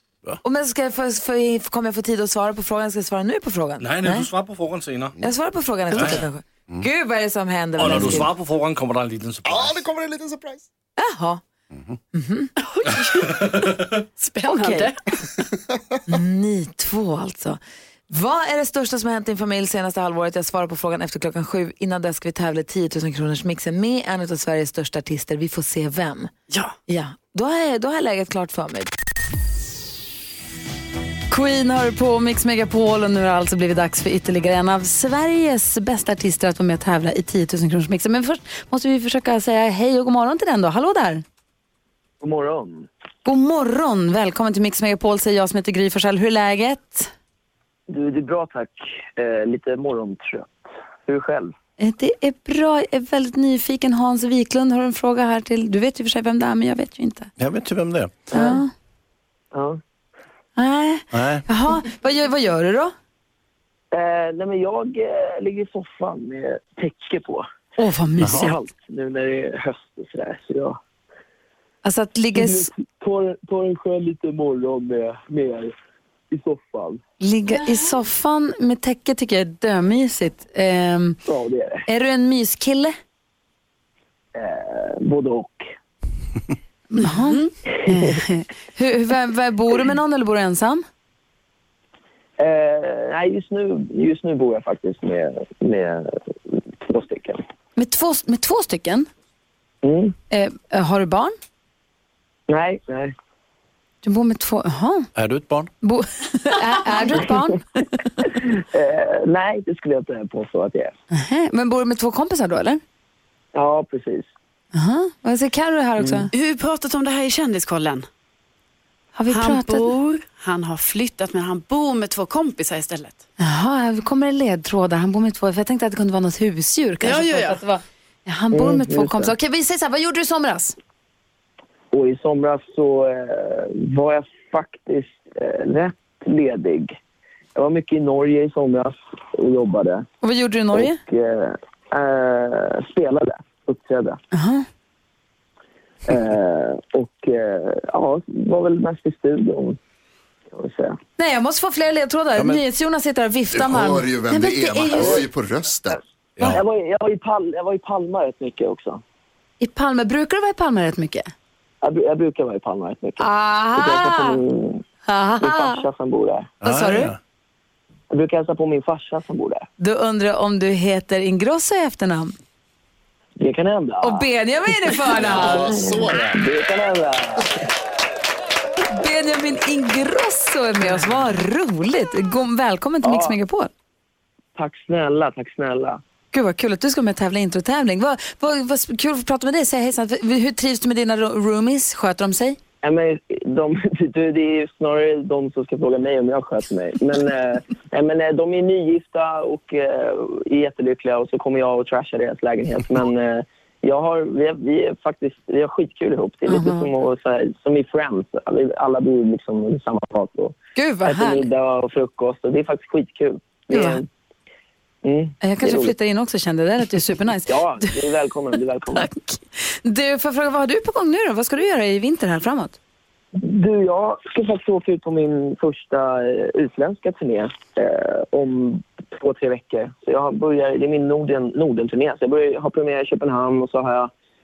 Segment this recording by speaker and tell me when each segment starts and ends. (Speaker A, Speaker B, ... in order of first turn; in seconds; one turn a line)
Speaker A: 0.4-4.3
Speaker B: 3.8-5.2
Speaker A: 5.2-8.3
Speaker B: 5.9-6.2
Speaker B: 7.8-9.8
Speaker C: 7.8-8.2
Speaker C: 9.4-10.7
Speaker A: 11.0-11.4
Speaker A: 12.1-12.5
Speaker D: 12.6-15.0
Speaker A: 14.4-14.9
Speaker A: 16.1-26.3
Speaker D: 26.5-26.8
Speaker A: 26.9-28.9
Speaker A: 31.3-41.2
Speaker E: 42.2-42.9
Speaker A: 43.2-47.1
Speaker E: 47.9-51.5
Speaker A: 51.8-57.3
Speaker F: 57.4-58.3
Speaker E: 58.3-58.6
Speaker A: 58.3-58.7
Speaker E: 59.5-59.8
Speaker A: 60.5-62.9
Speaker F: 61.1-61.4
Speaker E: 63.9-67.5
Speaker A: 67.8-68.6
Speaker E: 68.2-70.8
Speaker F: 68.2-68.5
Speaker A: 71.8-72.7
Speaker E: 72.3-75.7
Speaker E: 76.3-77.0
Speaker A: 77.2-81.2
Speaker E: 81.2-81.8
Speaker A: 81.9-82.9
Speaker E: 84.3-85.7
Speaker A: 86.9-90.8
Speaker E: 92.4-97.4
Speaker A: 97.8-99.1
Speaker E: 99.8-100.1
Speaker A: 100.3-101.3
Speaker E: 102.5-103.1
Speaker A: 104.0-105.1
Speaker F: 105.2-105.7
Speaker A: 105.8-108.3
Speaker E: 108.2-110.9
Speaker A: 111.1-112.8
Speaker E: 113.5-114.3
Speaker A: 114.7-116.3
Speaker D: 116.3-118.1
Speaker A: 119.1-119.9
Speaker D: 119.3-123.2
Speaker A: 123.4-130.8
Speaker D: 127.0-127.6
Speaker E: 128.5-129.3
Speaker E: 131.9-136.9
Speaker E: 137.6-140.1
Speaker A: 140.2-141.0
Speaker E: 140.7-144.2
Speaker A: 144.3-144.7
Speaker E: 146.1-149.8
Speaker E: 150.5-151.0
Speaker A: 151.2-155.2
Speaker F: 152.3-152.6
Speaker C: 153.5-156.0
Speaker E: 155.9-159.0
Speaker A: 159.6-161.3
Speaker E: 161.8-164.8
Speaker A: 163.2-164.4
Speaker A: 165.0-165.8
Speaker E: 165.4-166.5
Speaker A: 166.6-167.1
Speaker F: 166.6-167.2
Speaker E: 168.1-169.7
Speaker A: 169.8-172.3
Speaker E: 173.4-174.2
Speaker A: 174.0-175.9
Speaker E: 175.1-177.6
Speaker C: 175.2-176.4
Speaker A: 178.9-183.7
Speaker E: 183.0-183.3
Speaker E: 184.6-186.0
Speaker A: 186.3-192.6
Speaker E: 192.8-214.1
Speaker A: 206.5-206.9
Speaker A: 210.8-211.5
Speaker A: 213.7-214.0
Speaker E: 215.0-215.9
Speaker A: 215.4-217.9
Speaker E: 217.5-219.1
Speaker A: 218.9-222.8
Speaker E: 223.3-234.1